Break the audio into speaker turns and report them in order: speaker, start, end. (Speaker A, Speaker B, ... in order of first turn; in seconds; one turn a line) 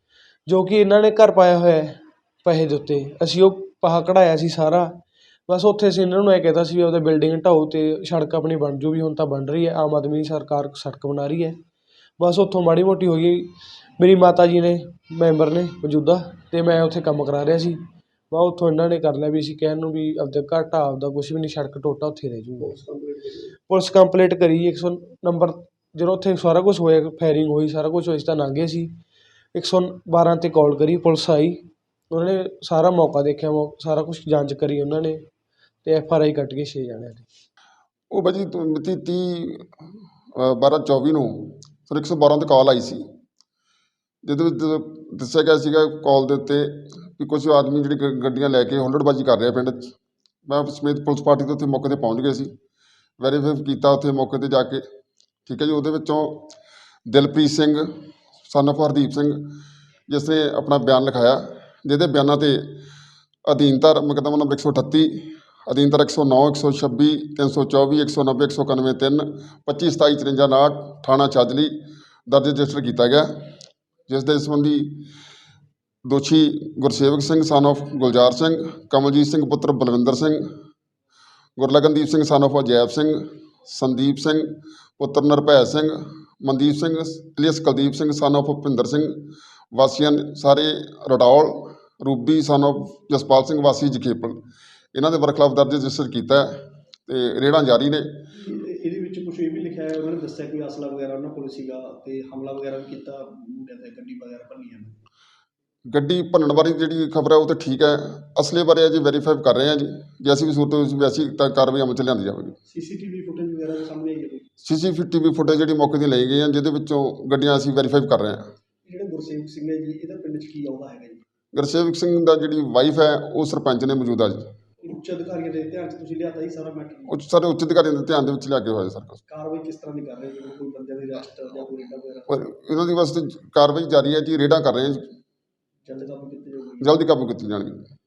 Speaker A: 0.5-11.6
Speaker A: 12.2-17.8
Speaker A: 18.3-22.7
Speaker B: 22.6-23.5
Speaker A: 23.7-28.9
Speaker A: 29.5-35.2
Speaker A: 35.8-37.3
Speaker C: 38.1-39.7
Speaker C: 40.4-43.0
Speaker C: 44.2-49.9
Speaker C: 50.5-52.5
Speaker C: 53.2-54.9
Speaker C: 55.5-56.5
Speaker C: 57.1-57.9
Speaker C: 58.5-59.5
Speaker C: 60.1-62.8
Speaker C: 63.5-73.5
Speaker C: 74.1-75.1
Speaker C: 76.0-80.5
Speaker C: 81.6-94.4
Speaker C: 94.9-98.2
Speaker B: 98.4-105.0
Speaker C: 105.9-112.5
Speaker B: 112.7-114.5
Speaker C: 114.6-118.5
Speaker B: 118.8-121.2
Speaker C: 121.5-124.5
Speaker B: 124.8-127.1
Speaker C: 127.1-129.2
Speaker B: 129.3-132.3
Speaker C: 132.3-135.0
Speaker B: 135.9-137.0
Speaker C: 136.8-137.8